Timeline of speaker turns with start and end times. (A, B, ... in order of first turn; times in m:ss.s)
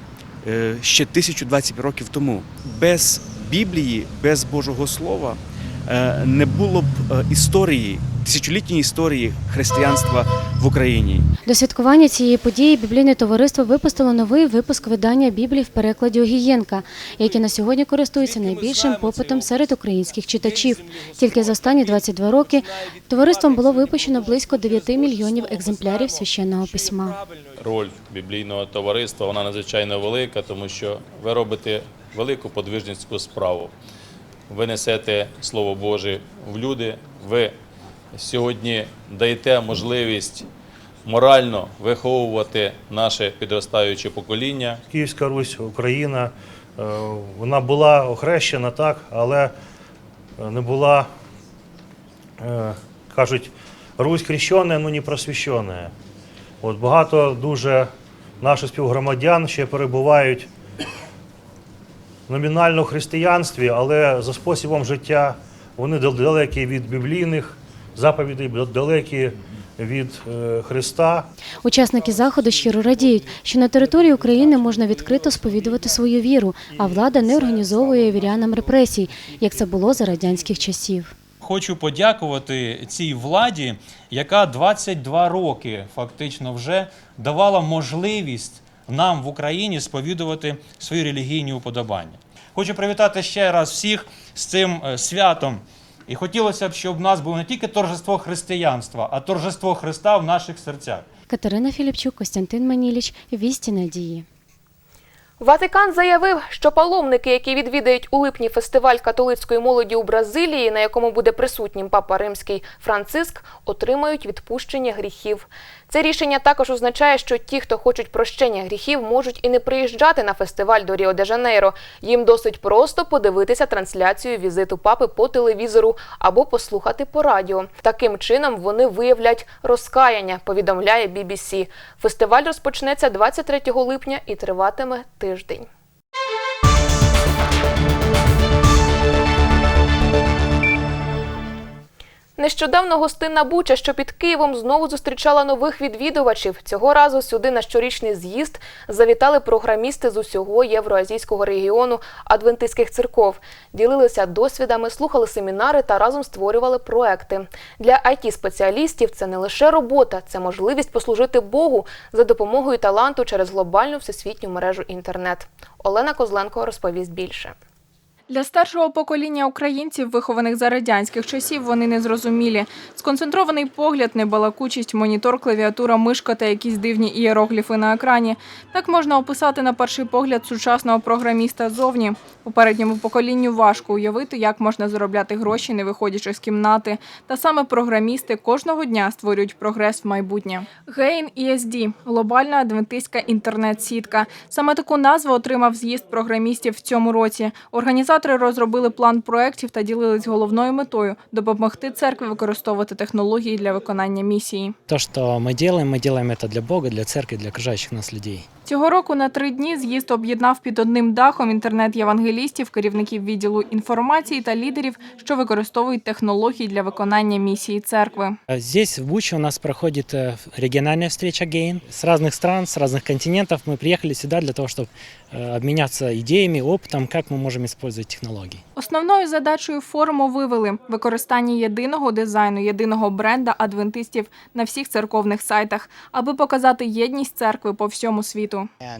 0:00.4-0:11.3 A
0:11.4-0:27.2 B
0:27.6-0:33.7 C
0:34.5-0:37.6 C
0:38.1-0:40.5 C
0:41.0-0:44.8 C
0:44.9-0:49.5 D
0:50.4-0:51.1 D
0:52.4-0:55.9 D
0:56.6-0:57.9 D
0:58.4-1:00.5 D
1:02.3-1:11.3 D
1:11.6-1:21.1 B
1:21.4-1:41.0 E
1:41.3-1:44.2 B
1:45.4-2:15.7 F
2:22.4-2:47.5 F
2:48.3-3:24.7 G
3:24.9-3:28.4 H
3:28.6-3:38.3 G
3:38.5-3:48.6 H
3:48.8-3:58.7 G